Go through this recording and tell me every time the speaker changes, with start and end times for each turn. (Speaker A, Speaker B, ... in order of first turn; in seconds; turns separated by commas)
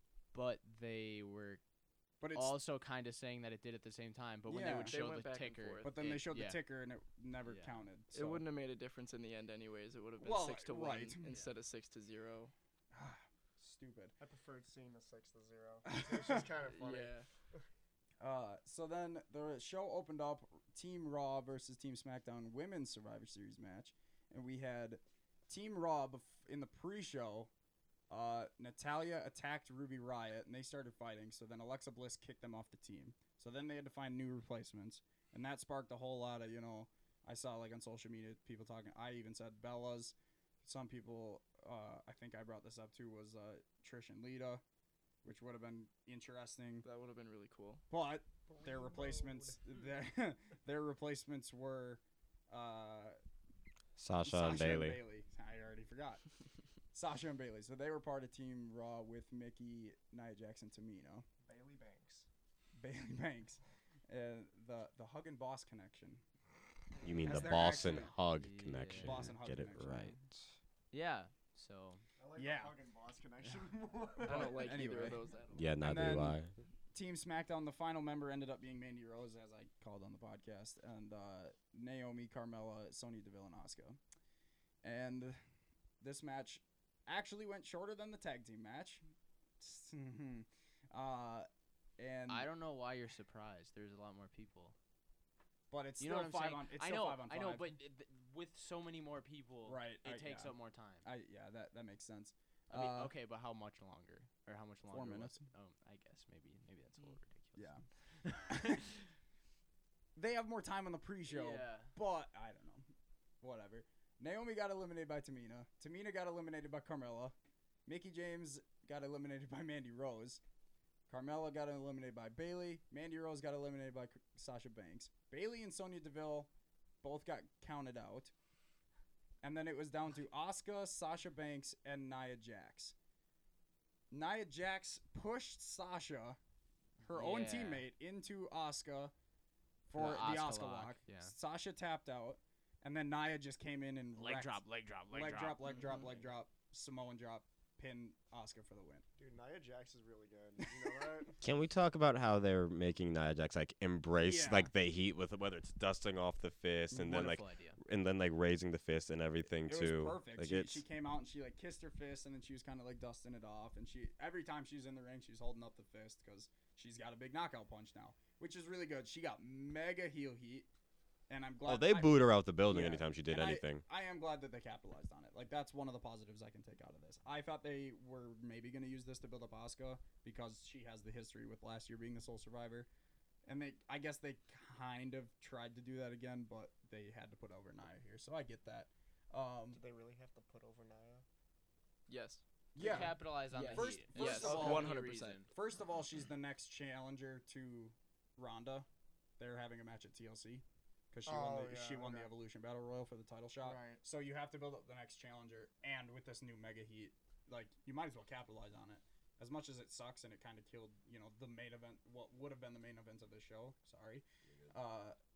Speaker A: 0.3-1.6, Speaker B: 2.2-2.5, Speaker A: 2.3-6.6, Speaker B: 4.5-5.0, Speaker C: 4.7-6.1, Speaker B: 5.8-8.4, Speaker A: 7.4-7.7, Speaker C: 8.1-12.5, Speaker B: 10.2-11.3, Speaker B: 12.9-14.1, Speaker D: 14.2-17.6, Speaker B: 15.8-16.4, Speaker C: 16.6-17.3, Speaker B: 18.2-27.5, Speaker B: 28.1-44.6, Speaker B: 45.2-46.9, Speaker C: 46.8-47.8, Speaker B: 47.9-53.2, Speaker D: 48.5-49.6, Speaker E: 54.0-55.0, Speaker B: 54.2-56.2, Speaker B: 56.9-61.2, Speaker D: 61.4-62.3, Speaker B: 62.8-66.2, Speaker E: 67.0-70.4, Speaker B: 67.2-68.1, Speaker A: 68.3-69.3, Speaker B: 68.9-70.2, Speaker A: 70.9-72.0, Speaker D: 72.2-74.9, Speaker B: 72.4-72.7, Speaker C: 74.2-75.7, Speaker B: 74.3-75.2, Speaker E: 75.5-76.5, Speaker B: 75.8-76.4, Speaker B: 76.9-84.0, Speaker B: 84.8-85.4, Speaker B: 86.0-89.0, Speaker B: 89.6-91.5, Speaker B: 92.0-92.5, Speaker A: 92.3-94.7, Speaker B: 95.7-97.7, Speaker A: 96.0-101.0, Speaker B: 99.6-103.1, Speaker A: 102.7-108.9, Speaker B: 104.9-105.4, Speaker B: 107.5-108.8, Speaker B: 110.2-112.9, Speaker A: 111.3-111.9, Speaker B: 113.4-117.3, Speaker B: 117.8-120.4, Speaker B: 121.1-126.5, Speaker B: 127.0-128.3, Speaker B: 129.4-132.9, Speaker B: 134.1-136.4, Speaker B: 137.0-139.1, Speaker A: 137.1-137.8, Speaker B: 139.9-149.0, Speaker A: 139.9-141.3, Speaker A: 144.2-145.8, Speaker C: 145.7-146.1, Speaker D: 149.2-151.4, Speaker E: 151.4-160.8, Speaker B: 154.2-154.7, Speaker B: 156.9-157.3, Speaker A: 156.9-157.8, Speaker B: 159.7-170.7, Speaker B: 171.3-182.9, Speaker E: 171.7-173.8, Speaker B: 183.4-189.8, Speaker D: 189.7-191.2, Speaker C: 192.1-192.4, Speaker B: 192.7-194.9, Speaker A: 192.8-195.5, Speaker C: 193.5-195.4, Speaker D: 194.4-194.8, Speaker B: 195.5-198.8, Speaker B: 199.4-215.2, Speaker D: 201.2-202.3, Speaker D: 203.6-204.0